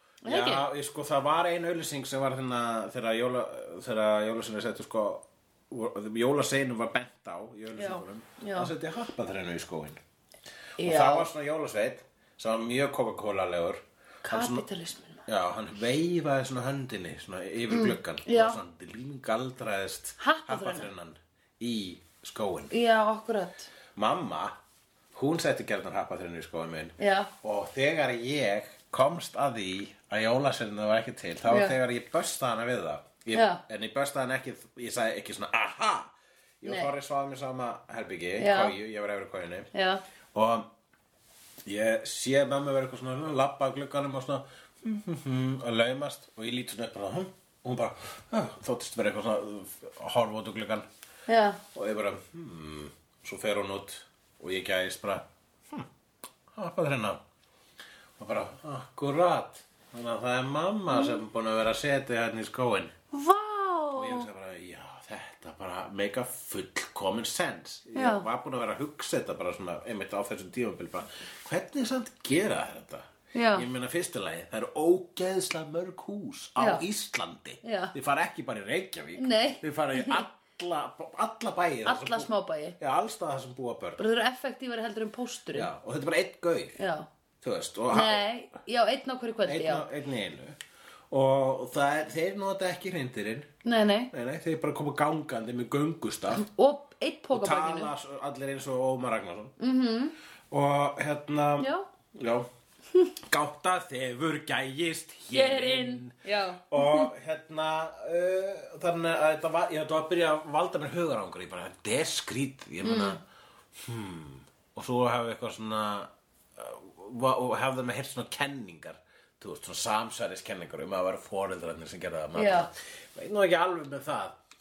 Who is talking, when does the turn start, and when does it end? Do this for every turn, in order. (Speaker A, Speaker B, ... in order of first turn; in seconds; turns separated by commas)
Speaker A: 0.2-0.7, Speaker B: 0.2-10.0, Speaker A: 7.8-8.7, Speaker A: 10.8-11.3, Speaker B: 10.8-14.6, Speaker A: 14.2-15.2, Speaker B: 15.2-22.7, Speaker A: 17.7-18.6, Speaker A: 20.2-20.9, Speaker A: 22.7-23.7, Speaker B: 23.9-24.5, Speaker B: 25.1-39.7, Speaker A: 27.0-27.3, Speaker A: 31.5-31.8, Speaker A: 33.3-33.6, Speaker A: 36.6-36.9, Speaker A: 38.4-38.7, Speaker A: 39.7-40.0, Speaker B: 40.3-40.7, Speaker B: 41.6-50.9, Speaker A: 51.3-51.6, Speaker B: 51.7-55.9, Speaker B: 56.5-57.2, Speaker B: 58.2-62.9, Speaker A: 60.9-61.2, Speaker A: 63.1-64.3, Speaker B: 63.9-82.3, Speaker A: 67.9-68.2, Speaker A: 73.3-73.7, Speaker A: 76.6-76.8, Speaker A: 77.6-77.9, Speaker A: 79.2-80.2, Speaker A: 81.8-82.8, Speaker B: 82.8-84.0, Speaker A: 84.0-85.7, Speaker B: 85.5-86.8, Speaker A: 86.8-87.1, Speaker B: 87.4-88.2, Speaker A: 87.9-89.9, Speaker B: 89.5-90.6, Speaker B: 91.1-93.5, Speaker A: 93.6-94.1, Speaker B: 94.1-96.4, Speaker A: 96.3-97.9, Speaker B: 97.3-99.5, Speaker A: 99.6-100.1, Speaker B: 100.5-102.5, Speaker A: 101.6-101.8, Speaker B: 103.3-106.2, Speaker A: 105.3-107.1, Speaker B: 106.7-113.2, Speaker A: 112.8-113.2, Speaker B: 113.8-124.4, Speaker A: 122.3-122.7